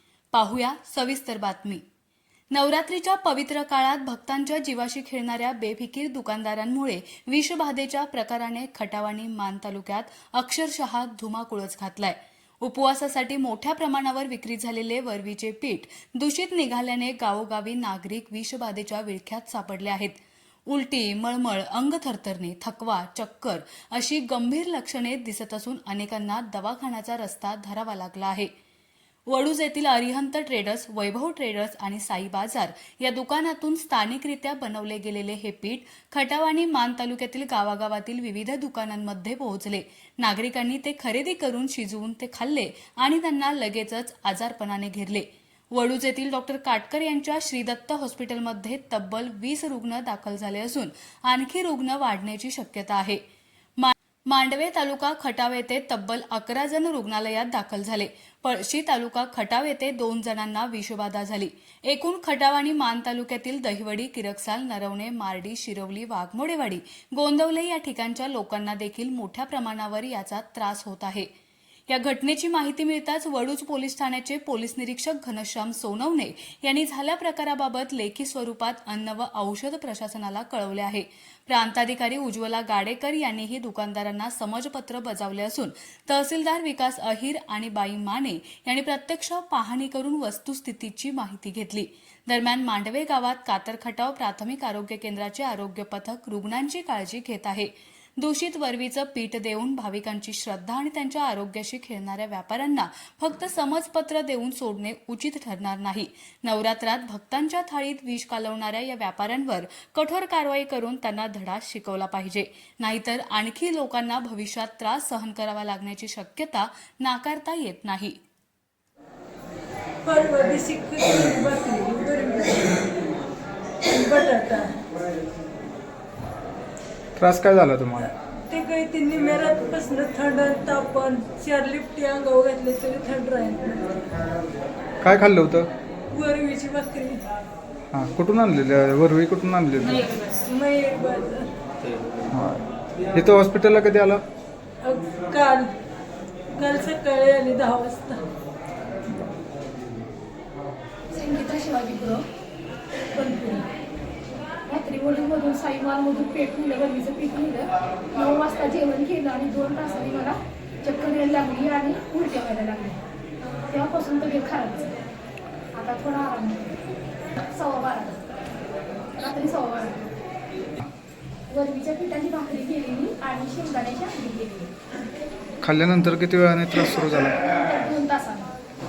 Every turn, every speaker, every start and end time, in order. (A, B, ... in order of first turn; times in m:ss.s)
0:00.3-0:01.8 A
0:02.5-0:28.5 A
0:29.3-0:53.2 A
0:53.8-1:11.3 A
1:11.9-1:58.2 A
2:00.0-2:02.9 B
2:03.8-2:04.8 B
2:07.2-2:08.1 C
2:08.5-2:14.1 B
2:15.0-2:15.7 C
2:16.1-2:17.2 B
2:17.9-2:20.1 C
2:20.1-2:21.5 B
2:22.3-2:24.2 C
2:24.8-2:25.7 B
2:26.5-2:28.2 B
2:31.1-2:32.2 D
2:33.1-2:33.6 D
2:34.7-2:43.0 D
2:43.7-2:44.9 D
2:45.7-2:46.8 D
2:47.4-2:48.2 D
2:49.2-2:50.1 D
2:51.5-2:54.7 D
2:55.6-2:57.5 C
2:57.5-2:58.5 D